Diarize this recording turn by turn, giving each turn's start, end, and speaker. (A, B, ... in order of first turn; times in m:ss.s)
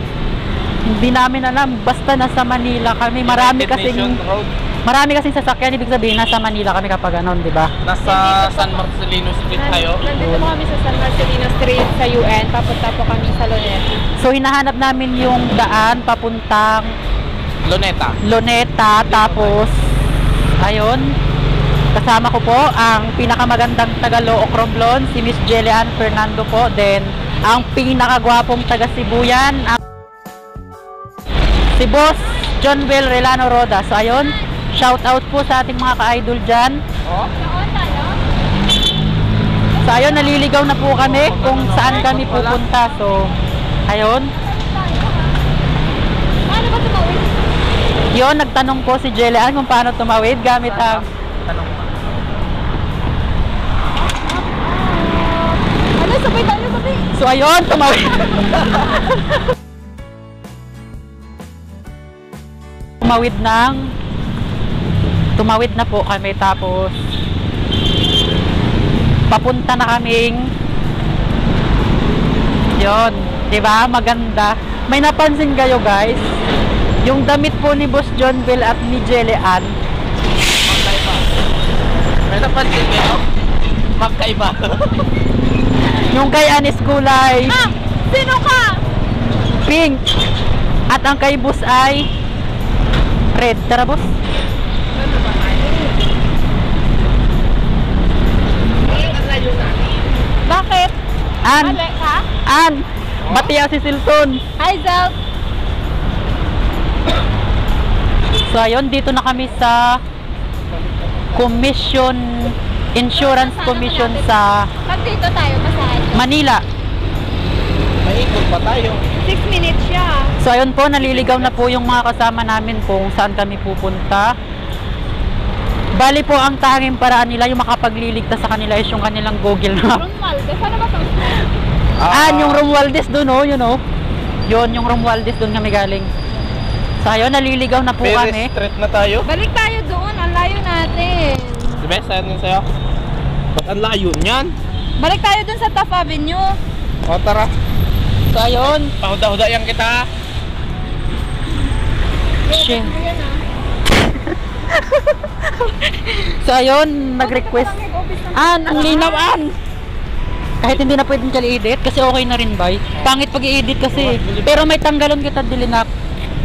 0:00.9-0:04.2 A
0:03.2-0:04.5 B
0:04.8-0:07.7 A
0:07.8-0:10.1 B
0:08.0-0:08.8 C
0:09.5-0:13.8 C
0:10.2-0:10.5 A
0:14.2-0:16.9 A
0:17.6-0:18.2 B
0:18.2-0:19.7 A
0:19.1-0:19.7 B
0:20.6-0:21.1 A
0:21.9-0:29.8 A
0:31.8-0:36.8 A
0:37.0-0:37.3 B
0:37.4-0:38.2 C
0:39.8-0:40.5 C
0:39.8-0:43.3 A
0:41.0-0:42.6 B
0:43.9-0:44.3 A
0:44.4-0:45.3 C
0:46.4-0:47.3 C
0:48.1-0:51.0 A
0:50.6-0:52.1 B
0:54.1-0:57.1 C
0:57.1-0:59.0 A
1:03.0-1:03.9 A
1:05.4-1:06.9 A
1:09.3-1:10.5 A
1:12.8-1:16.3 A
1:17.0-1:19.7 A
1:20.6-1:21.2 B
1:22.2-1:23.2 B
1:24.0-1:25.0 B
1:26.1-1:27.6 A
1:27.4-1:28.8 C
1:29.6-1:30.0 A
1:30.9-1:32.1 A
1:33.3-1:34.1 A
1:35.4-1:35.6 C
1:39.0-1:39.7 B
1:40.4-1:40.9 C
1:41.4-1:41.8 A
1:41.6-1:42.2 C
1:42.4-1:44.4 A
1:43.2-1:43.5 B
1:44.6-1:45.1 C
1:48.5-1:50.0 A
1:51.3-1:54.7 A
1:53.1-1:54.3 C
1:54.8-1:56.2 C
1:56.1-1:56.6 A
1:58.0-1:59.0 B
1:59.2-2:00.3 C
2:00.4-2:04.3 A
2:01.0-2:01.6 B
2:06.0-2:10.0 A
2:09.9-2:11.5 C
2:12.0-2:12.6 B
2:12.1-2:13.8 A
2:14.5-2:16.1 A
2:17.0-2:18.5 A
2:18.0-2:19.3 B
2:19.2-2:21.8 C
2:21.8-2:22.6 B
2:23.6-2:24.5 B
2:25.0-2:26.6 C
2:27.0-2:27.5 B
2:28.3-2:28.9 A
2:28.6-2:30.1 B
2:32.4-2:33.4 C
2:32.5-2:32.9 A
2:34.8-2:35.3 A
2:36.1-2:37.7 A
2:37.2-2:39.3 C
2:38.3-2:39.5 A
2:40.6-2:45.9 A
2:43.0-2:43.2 B
2:43.9-2:44.7 B